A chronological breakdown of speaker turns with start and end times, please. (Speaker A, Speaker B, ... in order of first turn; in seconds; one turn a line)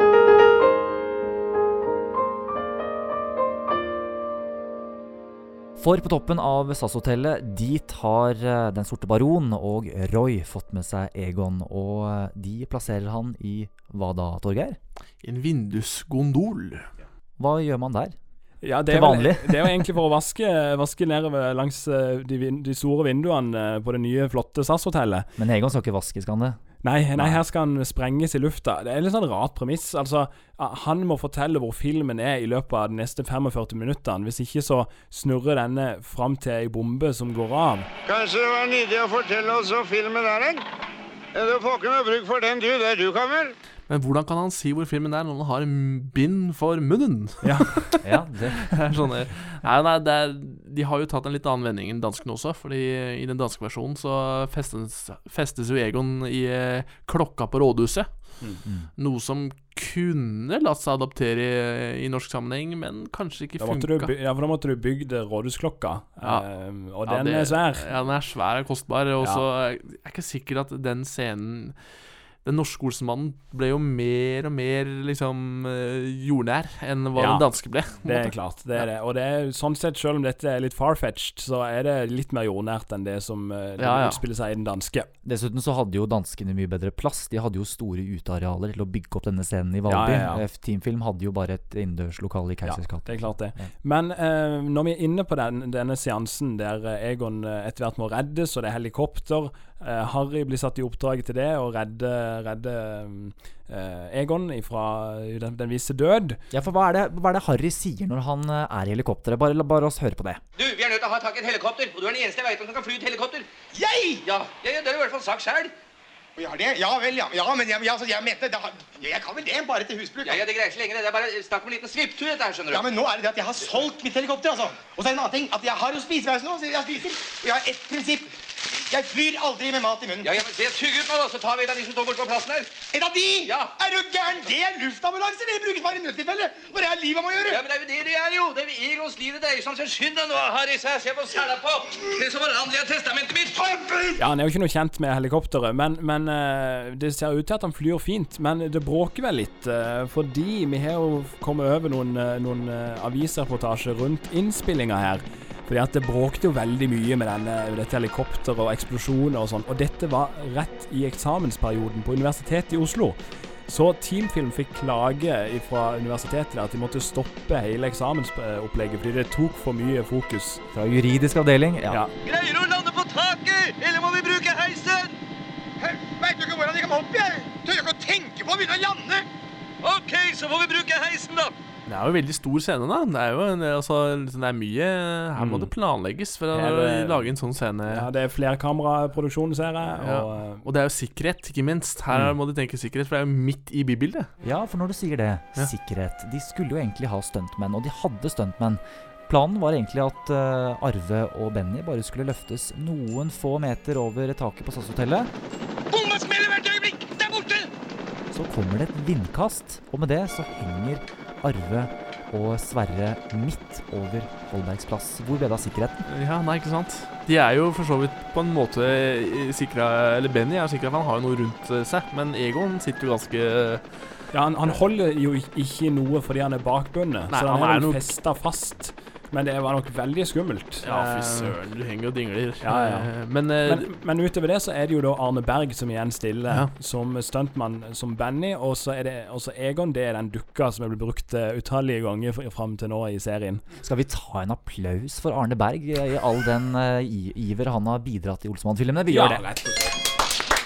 Speaker A: 5.8-14.8
Speaker B: 15.2-16.9
Speaker A: 17.4-18.2
Speaker C: 18.6-25.3
Speaker A: 18.9-19.8
Speaker A: 25.4-26.6
Speaker C: 26.8-37.9
Speaker D: 38.1-40.6
Speaker D: 41.3-43.5
Speaker B: 43.9-48.0
Speaker C: 47.4-47.8
Speaker A: 48.0-48.8
Speaker B: 48.7-58.4
Speaker B: 59.0-64.1
Speaker C: 63.6-67.9
Speaker B: 66.2-66.5
Speaker B: 67.0-71.8
Speaker B: 72.4-78.8
Speaker C: 77.2-77.5
Speaker C: 78.0-85.1
Speaker B: 83.8-84.2
Speaker A: 85.2-93.7
Speaker C: 89.9-90.4
Speaker C: 92.7-106.4
Speaker A: 106.5-110.4
Speaker E: 110.6-113.5
Speaker F: 113.7-114.2
Speaker E: 114.2-115.7
Speaker F: 116.4-120.5
Speaker E: 120.2-122.8
Speaker F: 122.7-130.3
Speaker E: 130.2-132.7
Speaker F: 132.9-137.6
Speaker E: 133.5-133.7
Speaker E: 137.5-143.6
Speaker F: 143.7-144.1
Speaker C: 144.2-170.6
Speaker A: 170.7-172.0
Speaker E: 172.2-175.1
Speaker F: 175.8-179.2
Speaker E: 179.8-181.5
Speaker B: 181.9-188.1
Speaker C: 185.4-185.7
Speaker C: 186.5-187.3
Speaker C: 187.9-190.6
Speaker B: 190.0-194.3
Speaker A: 194.4-205.3
Speaker E: 205.9-207.6
Speaker A: 208.3-216.1
Speaker B: 216.1-223.9
Speaker C: 224.3-231.6
Speaker B: 227.3-228.1
Speaker B: 230.8-233.9
Speaker C: 232.6-243.6
Speaker A: 243.8-249.4
Speaker C: 249.1-249.9